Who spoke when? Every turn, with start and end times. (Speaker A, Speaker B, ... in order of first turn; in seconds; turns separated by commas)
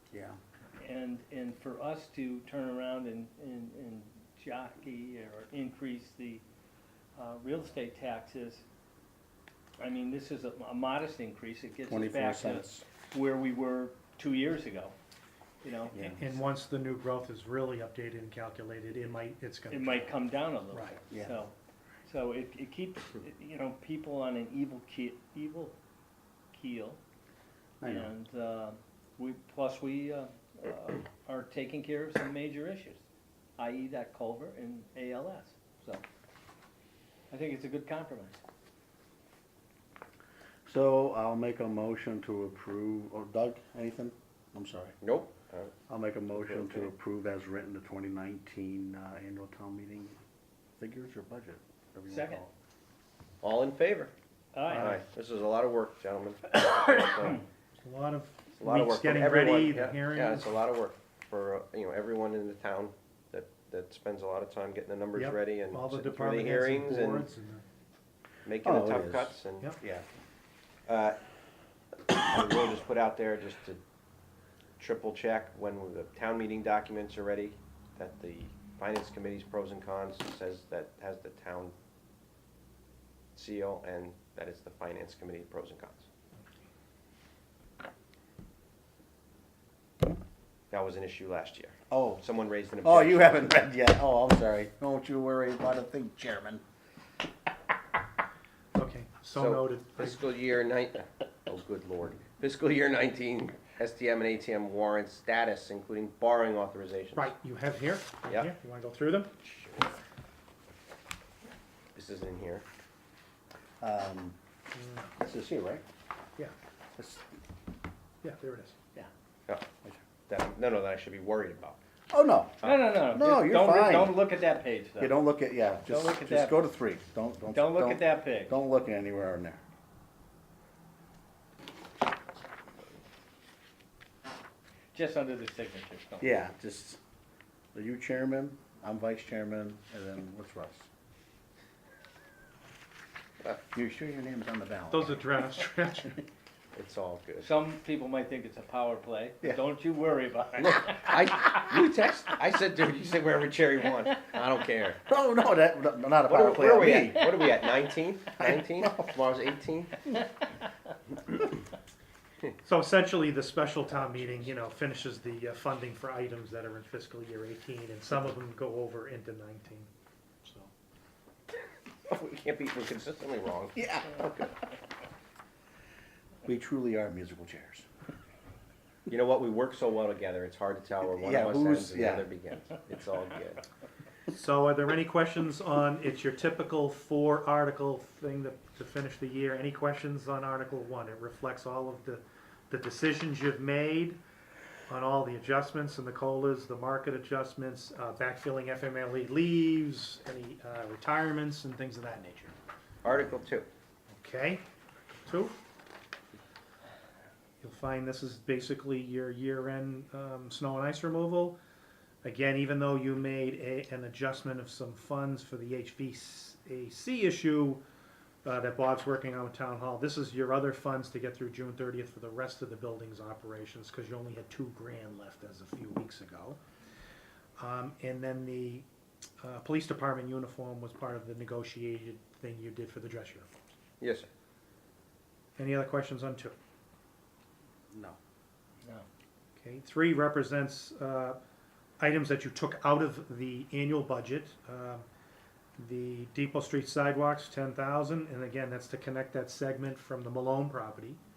Speaker A: 0.1-0.4, Speaker B: 0.8-6.4, Speaker B: 7.2-8.6, Speaker B: 9.8-14.9, Speaker A: 11.9-12.8, Speaker B: 15.6-16.0, Speaker A: 15.9-16.2, Speaker C: 16.0-20.1, Speaker B: 19.7-21.5, Speaker C: 20.7-21.0, Speaker A: 21.1-21.4, Speaker B: 22.1-25.8, Speaker B: 26.5-27.0, Speaker A: 27.8-28.1, Speaker B: 27.8-33.0, Speaker B: 33.6-36.0, Speaker B: 37.3-38.4, Speaker A: 40.7-45.0, Speaker D: 45.0-45.8, Speaker A: 45.9-50.2, Speaker D: 46.3-46.9, Speaker A: 50.8-52.5, Speaker B: 52.1-52.4, Speaker D: 53.4-54.1, Speaker B: 54.5-55.0, Speaker C: 54.7-55.0, Speaker D: 54.7-57.4, Speaker C: 57.8-60.6, Speaker D: 58.6-67.3, Speaker C: 65.2-67.7, Speaker D: 68.5-69.7, Speaker A: 68.6-70.1, Speaker D: 70.9-71.2, Speaker D: 72.1-73.8, Speaker D: 74.8-81.8, Speaker D: 83.4-86.1, Speaker D: 90.7-93.4, Speaker A: 91.9-92.2, Speaker A: 92.8-96.6, Speaker C: 98.8-100.2, Speaker D: 99.4-107.3, Speaker C: 107.2-109.3, Speaker D: 109.5-110.0, Speaker D: 112.0-112.6, Speaker A: 113.8-114.4, Speaker C: 114.8-115.1, Speaker A: 115.2-115.8, Speaker A: 117.0-117.2, Speaker C: 118.2-118.8, Speaker D: 120.3-121.8, Speaker A: 122.1-124.3, Speaker D: 122.6-122.9, Speaker B: 122.6-125.2, Speaker A: 125.0-129.6, Speaker B: 125.9-126.6, Speaker B: 127.5-128.5, Speaker B: 134.9-136.4, Speaker A: 136.2-137.0, Speaker A: 137.7-140.9, Speaker A: 143.7-145.3, Speaker C: 144.9-146.2, Speaker D: 146.8-147.5, Speaker B: 147.4-151.4, Speaker D: 150.6-155.0, Speaker A: 155.1-157.5, Speaker D: 156.3-160.1, Speaker A: 158.4-159.1, Speaker C: 162.6-169.9, Speaker C: 170.4-170.7, Speaker D: 172.1-174.5, Speaker A: 173.8-174.3, Speaker A: 176.4-177.9, Speaker D: 179.1-183.6, Speaker A: 181.1-182.3, Speaker C: 184.3-194.2, Speaker C: 194.9-202.6, Speaker D: 203.0-203.7, Speaker C: 204.1-204.6, Speaker C: 205.3-205.6, Speaker C: 207.6-211.6, Speaker C: 212.2-217.8, Speaker C: 218.4-226.6, Speaker C: 227.6-228.9, Speaker C: 229.4-233.5, Speaker D: 234.0-234.3, Speaker C: 235.6-236.6, Speaker A: 237.9-238.2, Speaker C: 239.6-241.4, Speaker C: 242.0-245.1, Speaker C: 245.8-251.2